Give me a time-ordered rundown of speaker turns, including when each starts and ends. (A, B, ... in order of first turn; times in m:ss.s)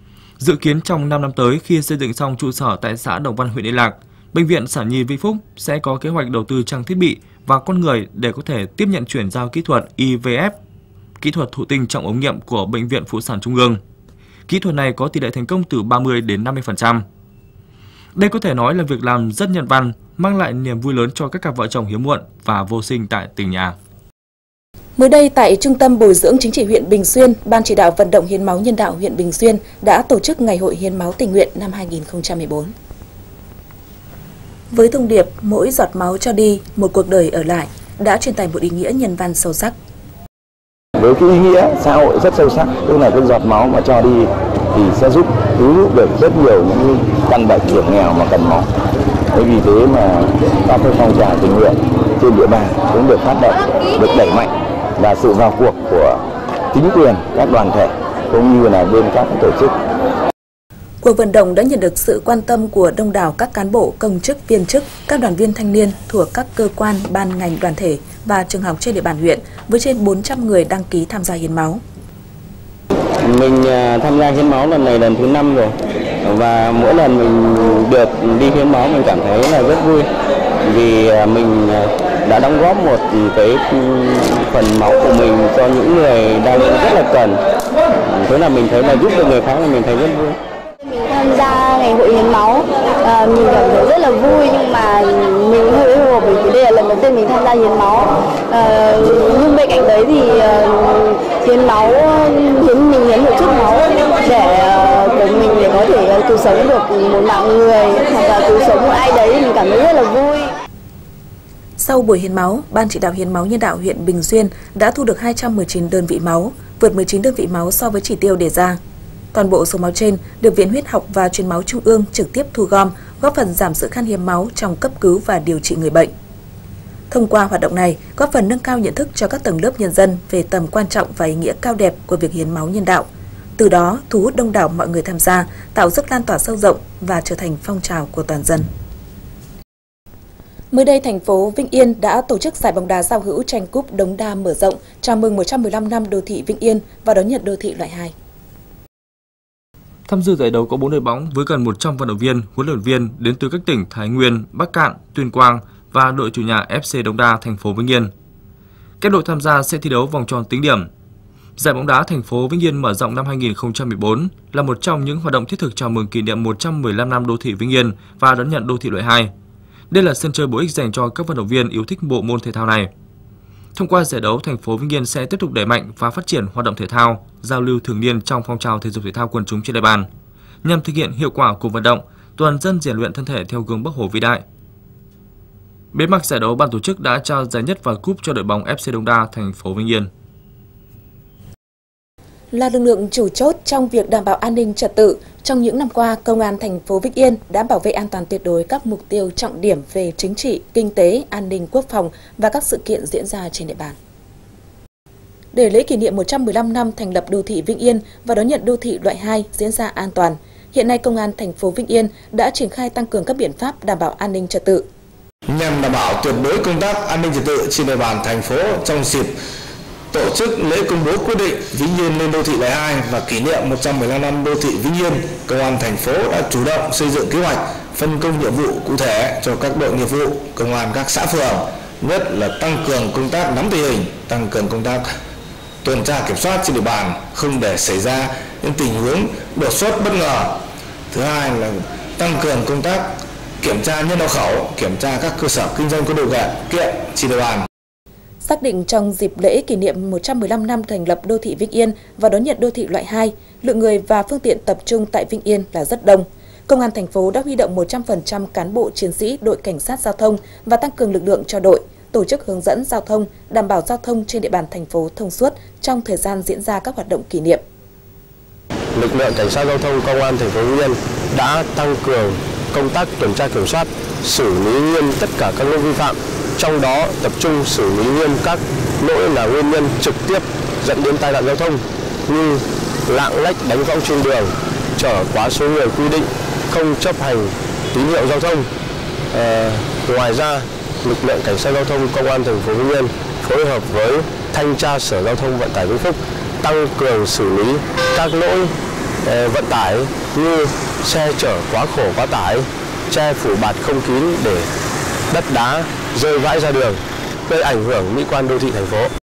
0:00.4-0:10.6 A
0:11.2-0:13.8 A
0:14.5-0:17.0 A
0:18.1-0:23.8 A
0:25.0-0:32.7 B
0:34.7-0:39.8 B
0:41.0-0:48.7 C
0:49.3-0:56.2 C
0:56.7-0:59.8 C
1:01.0-1:11.8 B
1:13.2-1:20.1 D
1:20.6-1:27.4 D
1:28.0-1:30.4 D
1:30.9-1:50.5 E
1:51.8-1:58.8 B
1:59.3-2:06.1 B
2:07.1-2:18.7 B
2:20.7-2:28.1 B
2:30.1-2:38.1 A
2:39.0-2:40.9 A
2:41.6-2:49.3 A
2:49.9-2:52.9 A
2:53.7-3:00.1 A
3:00.6-3:04.4 A
3:05.9-3:10.1 A
3:12.5-3:24.0 B
3:25.5-3:34.8 B
3:35.5-3:39.3 F
3:40.1-3:55.0 F
3:55.8-4:00.6 F
4:01.1-4:07.7 F
4:08.4-4:27.6 B
4:28.9-4:48.7 G
4:49.3-5:04.7 G
5:05.3-5:09.1 G